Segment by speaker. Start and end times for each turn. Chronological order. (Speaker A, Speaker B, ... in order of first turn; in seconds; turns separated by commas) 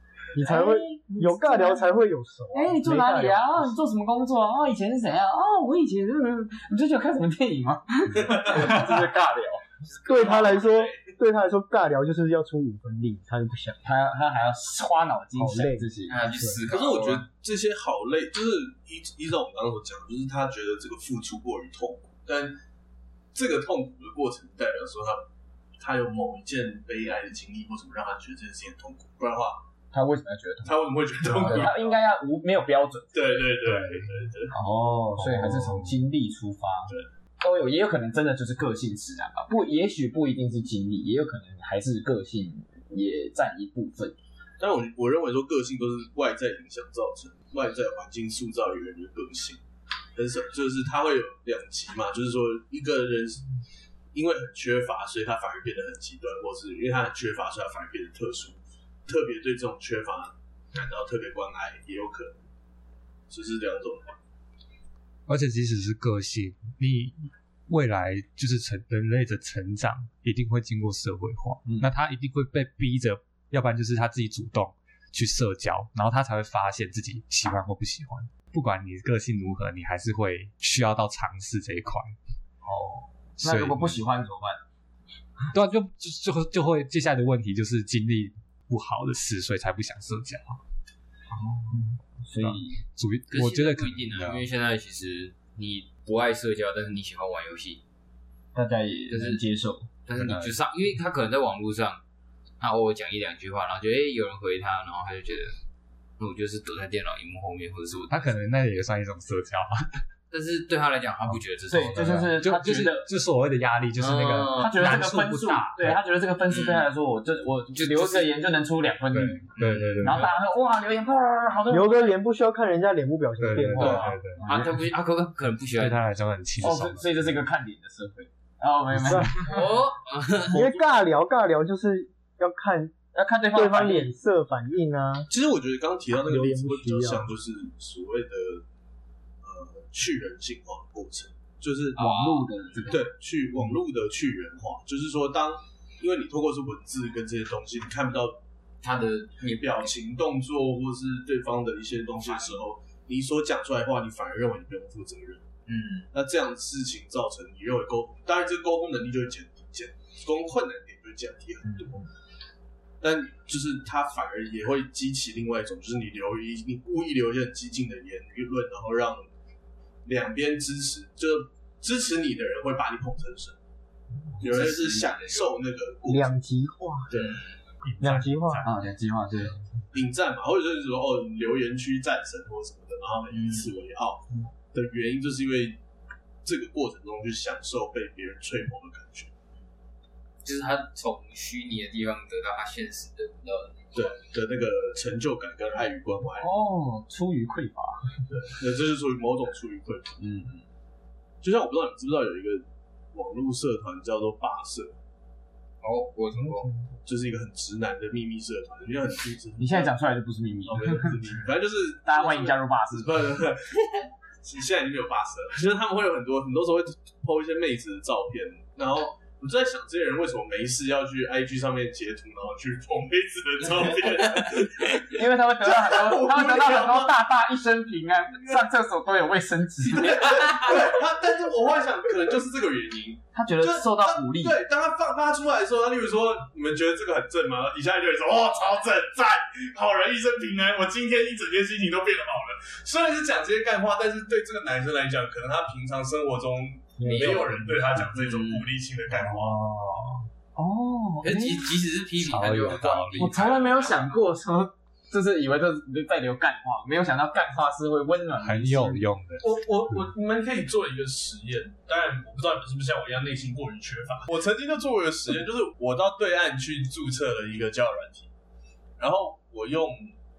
Speaker A: 0.3-3.8, Speaker B: 0.4-2.0, Speaker B: 2.5-9.7, Speaker C: 9.9-11.1, Speaker A: 10.1-13.8, Speaker D: 10.2-10.6, Speaker B: 13.8-16.6, Speaker A: 15.3-15.9, Speaker D: 16.1-17.3, Speaker C: 16.7-22.6, Speaker C: 23.3-25.2, Speaker C: 25.8-29.6, Speaker B: 29.9-33.4, Speaker C: 30.6-32.0, Speaker C: 33.1-34.5, Speaker E: 33.6-34.3, Speaker B: 34.5-44.1, Speaker E: 35.2-36.0, Speaker C: 44.6-49.6, Speaker C: 50.1-53.5, Speaker C: 54.1-62.4, Speaker C: 63.3-64.2, Speaker E: 65.3-82.2, Speaker B: 71.6-71.9, Speaker B: 82.6-84.6, Speaker E: 83.4-84.0, Speaker E: 85.5-90.6, Speaker B: 91.3-92.8, Speaker E: 92.4-94.5, Speaker D: 93.3-97.8, Speaker B: 98.5-99.9, Speaker D: 99.1-99.4, Speaker D: 100.0-102.0, Speaker E: 100.2-100.6, Speaker D: 102.6-105.6, Speaker D: 106.2-108.3, Speaker E: 108.1-110.0, Speaker D: 110.3-112.4, Speaker B: 111.7-113.1, Speaker E: 111.9-116.0, Speaker D: 114.0-115.0, Speaker B: 114.5-119.5, Speaker D: 116.5-116.9, Speaker D: 117.7-118.3, Speaker E: 119.1-120.3, Speaker D: 119.5-120.4, Speaker B: 120.0-122.1, Speaker A: 121.7-124.2, Speaker E: 123.4-124.4, Speaker B: 123.8-124.8, Speaker D: 123.8-126.0, Speaker E: 125.8-127.4, Speaker B: 126.6-129.6, Speaker E: 128.9-129.5, Speaker A: 129.1-129.4, Speaker D: 129.4-130.8, Speaker A: 130.5-132.9, Speaker B: 133.1-134.1, Speaker A: 133.5-135.3, Speaker C: 135.3-138.6, Speaker A: 136.2-137.3, Speaker C: 139.4-142.0, Speaker D: 141.9-142.9, Speaker B: 141.9-143.0, Speaker C: 142.9-148.4, Speaker D: 148.8-149.9, Speaker C: 149.4-155.4, Speaker D: 152.2-152.5, Speaker D: 155.7-156.1, Speaker C: 156.1-162.1, Speaker C: 163.0-169.3, Speaker C: 170.0-173.6, Speaker D: 174.4-175.5, Speaker C: 174.4-176.3, Speaker A: 176.1-177.1, Speaker C: 177.1-177.4, Speaker D: 177.1-177.5, Speaker E: 177.8-178.7, Speaker A: 178.0-178.6, Speaker B: 178.6-179.6, Speaker C: 179.9-185.8, Speaker D: 183.3-183.7, Speaker C: 186.4-189.3, Speaker D: 190.4-194.2, Speaker C: 193.9-196.5, Speaker B: 196.4-198.1, Speaker C: 198.3-200.2, Speaker B: 200.2-200.6, Speaker C: 201.4-204.9, Speaker D: 205.8-206.7, Speaker C: 207.0-209.9, Speaker B: 209.6-211.1, Speaker C: 210.7-227.2, Speaker B: 212.0-213.2, Speaker B: 225.1-230.4, Speaker C: 229.9-249.6, Speaker B: 233.3-234.6, Speaker B: 247.0-247.4, Speaker A: 247.0-247.3, Speaker D: 247.0-248.7, Speaker E: 249.1-250.3, Speaker B: 250.6-251.7, Speaker D: 251.2-254.2, Speaker E: 252.2-253.3, Speaker B: 253.2-259.1, Speaker E: 258.4-259.9, Speaker C: 259.4-268.3, Speaker C: 269.0-270.1